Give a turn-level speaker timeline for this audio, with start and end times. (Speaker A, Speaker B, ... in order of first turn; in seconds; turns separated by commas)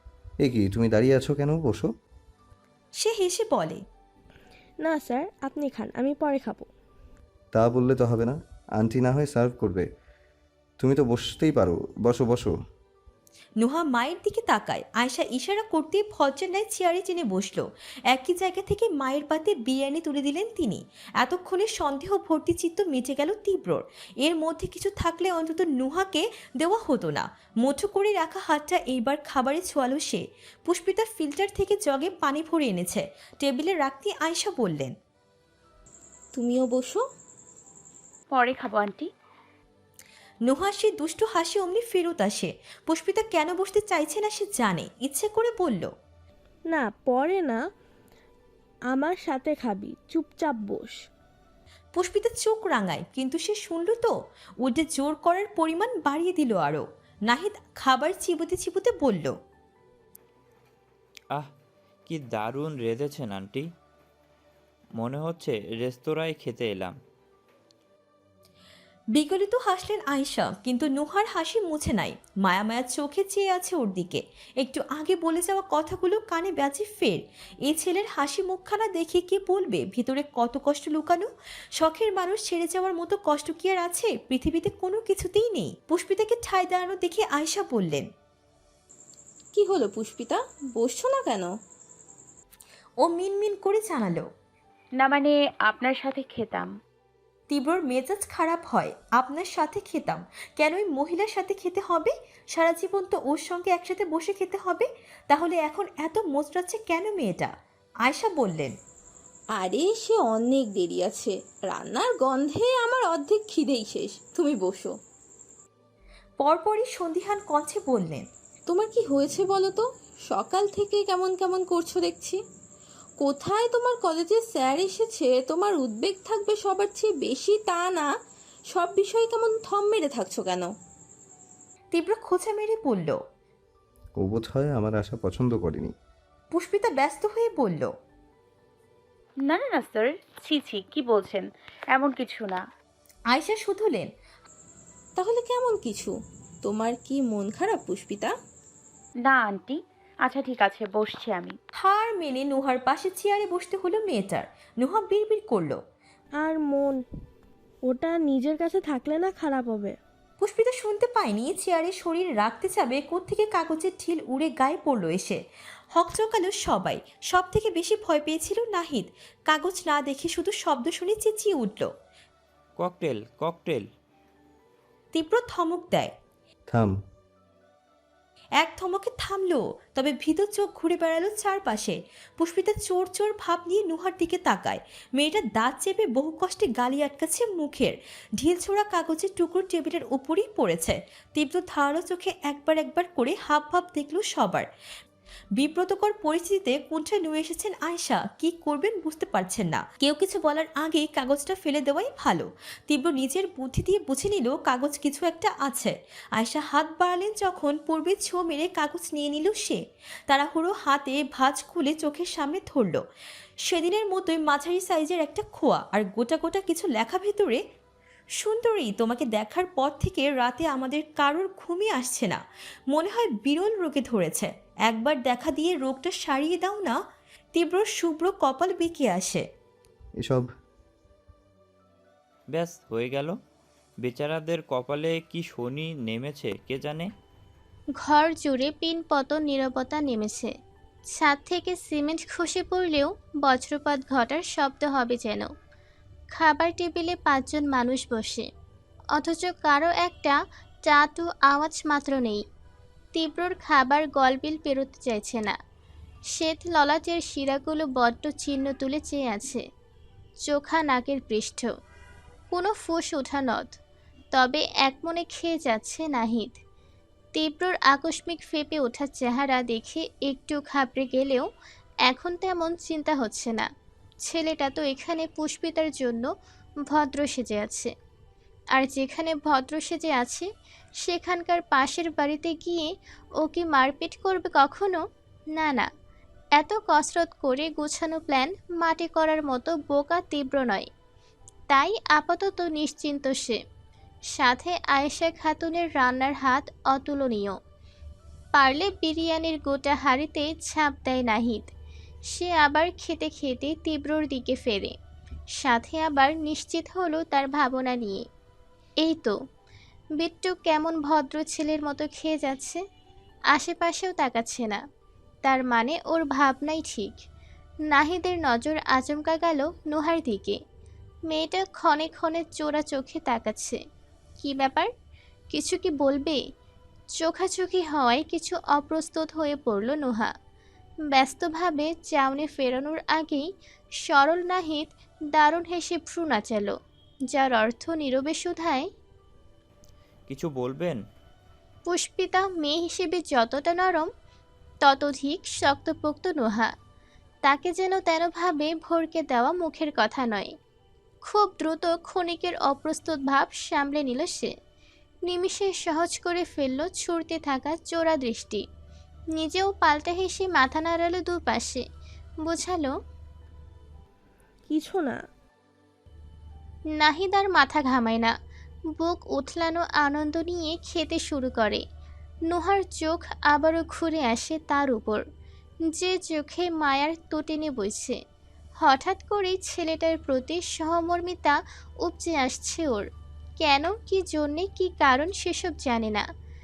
Speaker A: 0.4-1.9, Speaker B: 3.0-3.8, Speaker C: 4.8-6.7, Speaker A: 7.5-9.9, Speaker A: 10.8-12.5, Speaker B: 13.6-34.9, Speaker D: 36.3-37.0, Speaker E: 38.3-39.1, Speaker B: 40.5-45.9, Speaker C: 46.7-47.6, Speaker C: 48.9-51.0, Speaker B: 51.9-54.1, Speaker B: 54.6-59.3, Speaker F: 62.1-63.6, Speaker F: 65.0-67.0, Speaker B: 69.1-81.3, Speaker B: 81.8-88.1, Speaker D: 89.5-91.5, Speaker B: 93.0-94.3, Speaker E: 95.0-96.7, Speaker B: 97.5-107.5, Speaker B: 108.0-108.7, Speaker D: 109.5-114.9, Speaker B: 116.4-118.2, Speaker D: 118.7-122.4, Speaker D: 123.2-128.1, Speaker D: 128.7-130.7, Speaker B: 131.9-133.2, Speaker A: 134.2-135.9, Speaker B: 136.5-137.9, Speaker E: 139.4-142.6, Speaker B: 143.3-144.1, Speaker D: 145.2-148.3, Speaker E: 149.2-151.6, Speaker B: 151.8-155.8, Speaker C: 156.4-157.0, Speaker C: 157.9-160.0, Speaker B: 160.4-165.4, Speaker B: 165.9-171.9, Speaker F: 172.8-173.9, Speaker B: 175.1-176.1, Speaker B: 178.6-194.7, Speaker B: 195.6-213.0, Speaker B: 213.7-217.6, Speaker B: 218.4-227.0, Speaker B: 227.5-229.4, Speaker A: 230.2-230.5, Speaker F: 232.5-233.3, Speaker F: 234.0-237.1, Speaker G: 238.0-240.5, Speaker G: 241.1-245.5, Speaker G: 246.3-248.4, Speaker G: 249.1-252.4, Speaker G: 253.1-255.5, Speaker G: 256.3-259.6, Speaker G: 260.4-261.7, Speaker G: 262.5-263.7, Speaker G: 264.3-266.6, Speaker G: 267.3-271.4, Speaker G: 272.1-273.7, Speaker G: 274.2-276.3, Speaker G: 276.9-277.9, Speaker G: 278.7-280.5, Speaker G: 281.0-282.9, Speaker G: 283.4-285.0, Speaker G: 285.5-285.9, Speaker G: 286.6-290.9, Speaker G: 291.7-293.6, Speaker G: 294.3-297.6, Speaker G: 298.5-301.7, Speaker G: 302.3-304.9, Speaker G: 305.5-308.2, Speaker G: 309.0-309.3, Speaker G: 310.2-312.8, Speaker G: 313.5-314.8, Speaker G: 315.4-317.2, Speaker G: 317.9-320.6, Speaker G: 321.3-323.8, Speaker G: 324.4-324.9, Speaker G: 325.5-326.4, Speaker G: 327.1-330.3, Speaker G: 331.1-333.5, Speaker G: 334.0-336.7, Speaker G: 337.3-338.9, Speaker F: 340.3-341.0, Speaker G: 341.9-344.1, Speaker G: 344.8-346.7, Speaker G: 347.4-350.5, Speaker G: 351.2-354.5, Speaker G: 355.3-358.6, Speaker G: 359.3-361.8, Speaker G: 362.4-362.9, Speaker C: 364.7-365.2, Speaker G: 366.9-368.3, Speaker G: 368.9-371.8, Speaker G: 372.5-375.2, Speaker G: 375.9-378.2, Speaker G: 378.8-383.1, Speaker G: 383.6-386.2